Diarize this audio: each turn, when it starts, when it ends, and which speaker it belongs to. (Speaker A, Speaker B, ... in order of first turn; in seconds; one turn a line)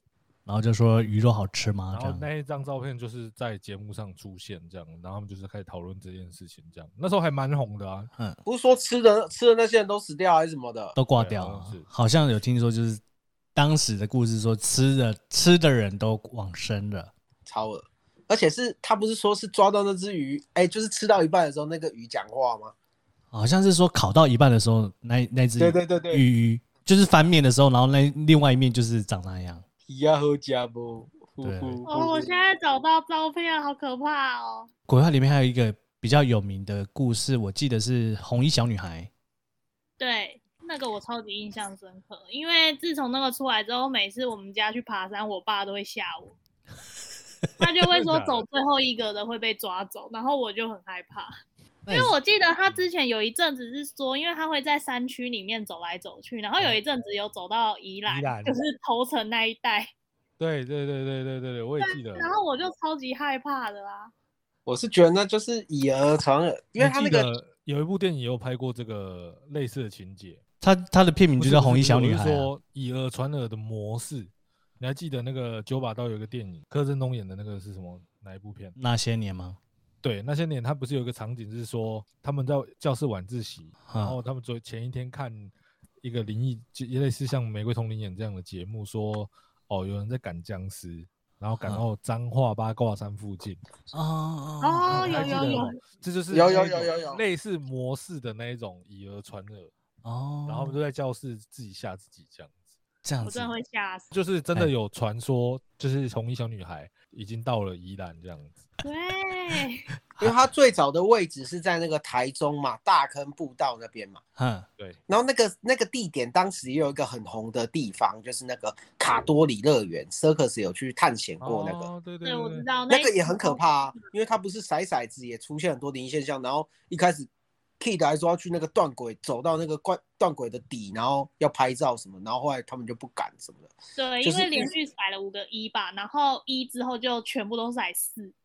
Speaker A: 0.5-2.3
Speaker B: 1.9-8.1
Speaker C: 8.4-11.0
Speaker A: 11.0-13.0
Speaker B: 11.2-11.9
Speaker A: 13.6-17.1
Speaker C: 17.5-22.7
Speaker A: 23.3-29.6
Speaker C: 25.6-26.2
Speaker C: 29.9-32.3
Speaker A: 31.4-31.8
Speaker D: 31.9-34.7
Speaker A: 34.9-39.1
Speaker D: 40.0-46.4
Speaker D: 47.6-51.3
Speaker B: 47.9-48.5
Speaker A: 51.9-52.1
Speaker D: 51.9-59.9
Speaker B: 58.1-58.6
Speaker B: 60.4-62.3
Speaker D: 61.8-64.1
Speaker C: 64.7-67.3
Speaker B: 66.8-70.4
Speaker A: 70.6-72.5
Speaker B: 71.4-78.8
Speaker A: 78.8-79.6
Speaker B: 80.0-93.6
Speaker A: 83.9-84.2
Speaker A: 93.9-95.7
Speaker D: 94.6-95.8
Speaker B: 94.9-99.7
Speaker C: 96.3-97.2
Speaker A: 100.0-100.8
Speaker B: 100.5-102.6
Speaker A: 103.0-103.5
Speaker D: 103.2-104.1
Speaker B: 104.1-108.5
Speaker D: 108.8-109.9
Speaker A: 110.2-110.5
Speaker C: 110.2-114.2
Speaker A: 114.4-114.7
Speaker C: 115.1-121.9
Speaker B: 121.4-122.7
Speaker D: 122.2-124.0
Speaker C: 122.9-127.3
Speaker C: 127.8-133.7
Speaker D: 133.9-138.3
Speaker C: 134.2-134.7